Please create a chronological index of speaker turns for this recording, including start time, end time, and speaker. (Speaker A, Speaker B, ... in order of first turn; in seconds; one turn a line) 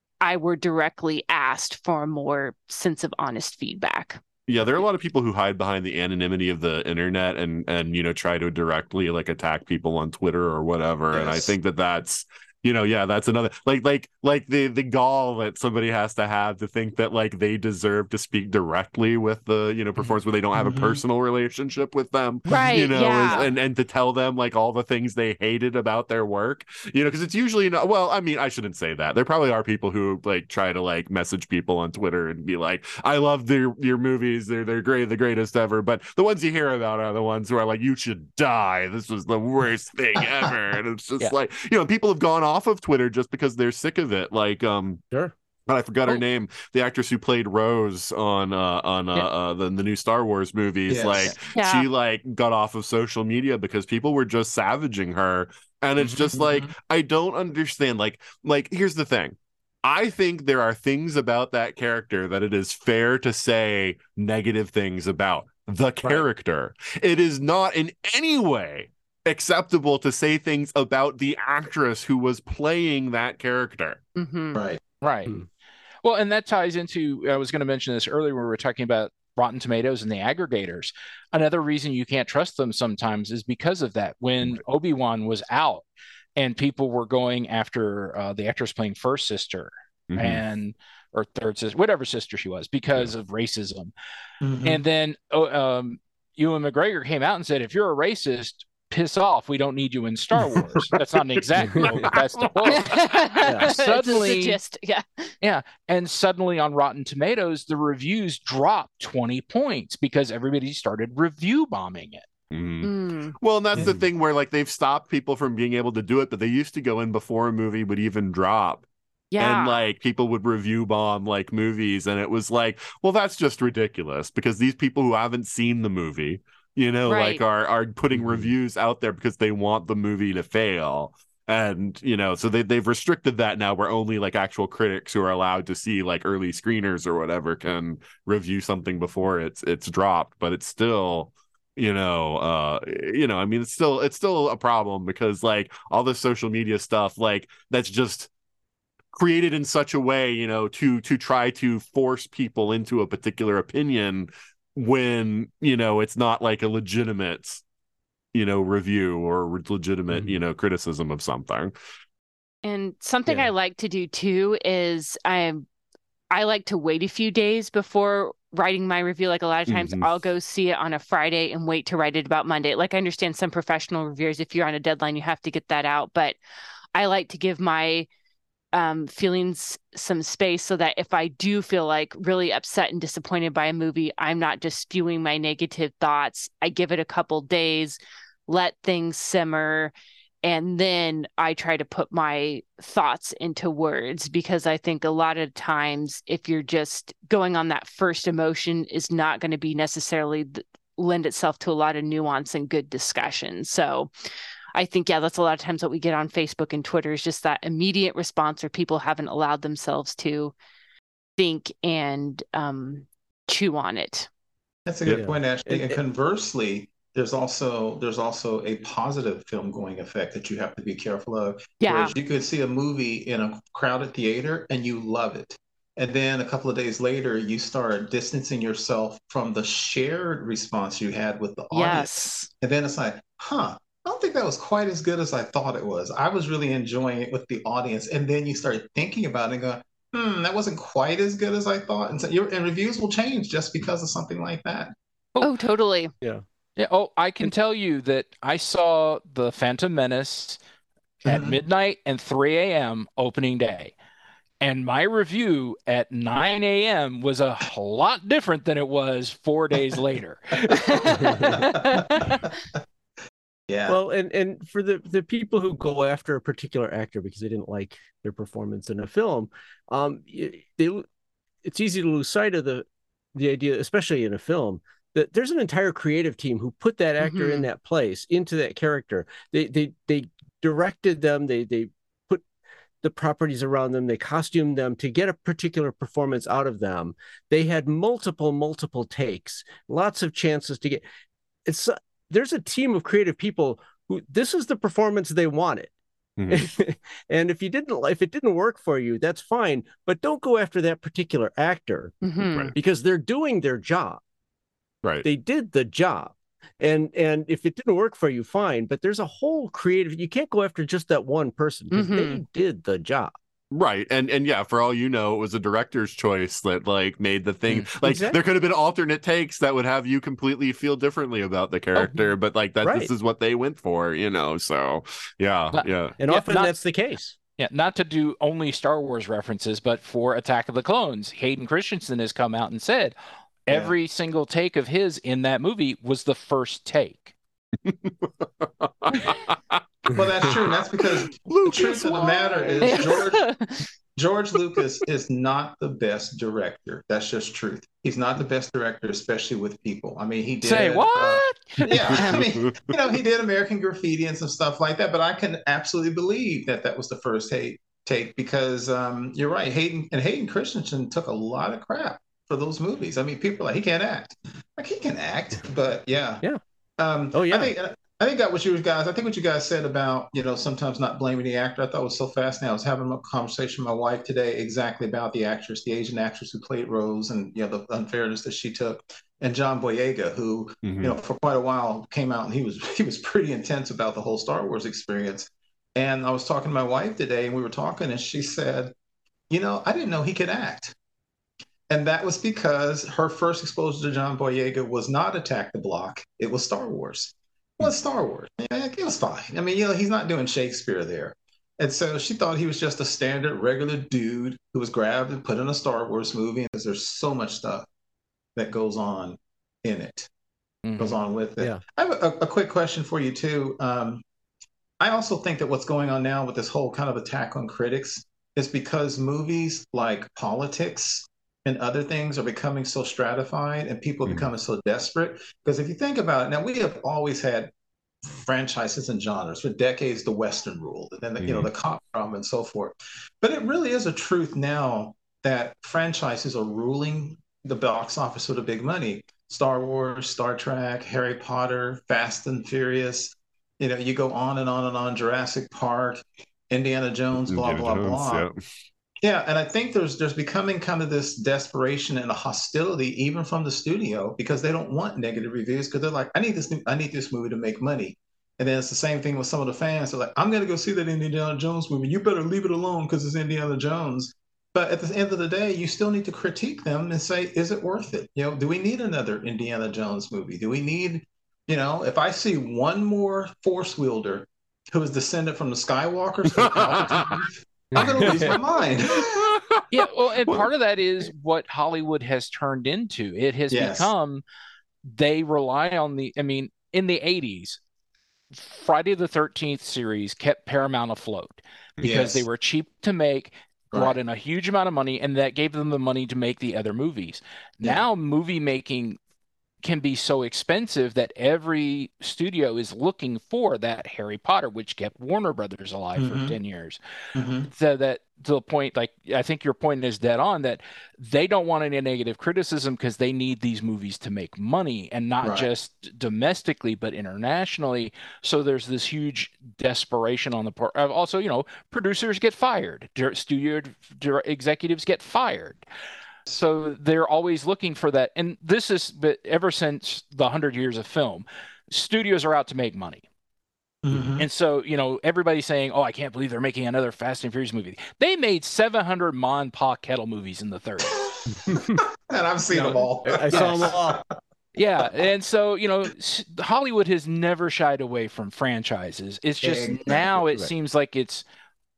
Speaker A: 0.2-4.8
Speaker B: 4.5-45.0
Speaker C: 11.1-11.5
Speaker C: 20.0-21.0
Speaker A: 22.5-23.5
Speaker B: 45.7-74.0
Speaker C: 50.9-51.3
Speaker A: 51.5-51.9
Speaker C: 56.3-56.7
Speaker A: 74.2-74.6
Speaker C: 74.5-74.8
Speaker D: 75.0-75.3
Speaker D: 76.0-93.9
Speaker B: 90.1-90.4
Speaker C: 94.4-94.8
Speaker D: 94.6-104.6
Speaker A: 102.7-105.3
Speaker E: 103.5-103.7
Speaker D: 105.4-112.3
Speaker B: 112.5-118.8
Speaker A: 112.8-113.3
Speaker A: 119.3-119.8
Speaker B: 119.4-148.3
Speaker A: 127.0-127.4
Speaker E: 128.1-128.5
Speaker B: 149.1-157.6
Speaker B: 158.3-161.7
Speaker A: 162.6-165.6
Speaker A: 166.3-176.4
Speaker B: 169.7-170.1
Speaker A: 176.9-178.1
Speaker A: 178.7-204.1
Speaker A: 204.7-210.5
Speaker A: 211.4-214.3
Speaker C: 214.8-244.9
Speaker E: 215.1-216.0
Speaker A: 221.8-222.1
Speaker A: 231.7-232.5
Speaker A: 245.4-246.1
Speaker D: 246.8-250.6
Speaker C: 251.2-251.6
Speaker D: 251.2-253.9
Speaker D: 254.6-261.3
Speaker A: 260.7-262.6
Speaker C: 261.1-262.3
Speaker E: 261.2-261.5
Speaker C: 263.7-264.0
Speaker E: 263.9-271.0
Speaker E: 271.6-282.4
Speaker A: 277.2-277.7
Speaker E: 283.0-291.0
Speaker E: 291.6-295.9
Speaker B: 296.4-296.7
Speaker E: 296.5-302.1
Speaker A: 302.2-302.7
Speaker B: 302.5-302.7
Speaker E: 302.7-304.2
Speaker E: 305.2-313.3
Speaker A: 311.9-312.4
Speaker B: 313.7-326.1
Speaker E: 318.0-318.4
Speaker E: 321.9-322.3
Speaker E: 322.8-323.1
Speaker D: 325.7-326.8
Speaker E: 326.2-327.3
Speaker D: 327.6-333.1
Speaker D: 333.7-337.3
Speaker C: 333.7-333.9
Speaker B: 337.8-339.8
Speaker C: 340.1-343.4
Speaker B: 340.4-343.1
Speaker A: 342.8-343.8
Speaker C: 344.1-366.4
Speaker D: 350.6-352.4
Speaker B: 352.1-352.7
Speaker C: 367.0-388.9
Speaker E: 367.3-367.7
Speaker B: 380.8-381.2
Speaker C: 389.5-390.9
Speaker C: 391.9-407.9
Speaker C: 408.6-410.3
Speaker D: 410.8-411.2
Speaker C: 411.0-414.2
Speaker C: 415.0-427.7
Speaker C: 428.2-448.4
Speaker B: 431.4-431.7
Speaker B: 447.5-448.6
Speaker C: 449.2-479.5
Speaker B: 476.6-477.3
Speaker E: 477.9-478.5
Speaker B: 478.3-478.5
Speaker B: 479.2-479.9
Speaker D: 479.9-484.4
Speaker C: 483.7-484.1
Speaker D: 485.1-487.8
Speaker D: 488.5-499.2
Speaker C: 492.0-492.4
Speaker D: 499.8-507.0
Speaker C: 506.1-506.6
Speaker C: 507.3-507.7
Speaker D: 507.7-525.8
Speaker C: 515.4-515.7
Speaker D: 526.5-533.2
Speaker C: 534.0-534.5
Speaker D: 534.4-541.2
Speaker C: 541.1-544.2
Speaker E: 543.3-544.2
Speaker D: 544.8-551.4
Speaker C: 549.6-550.4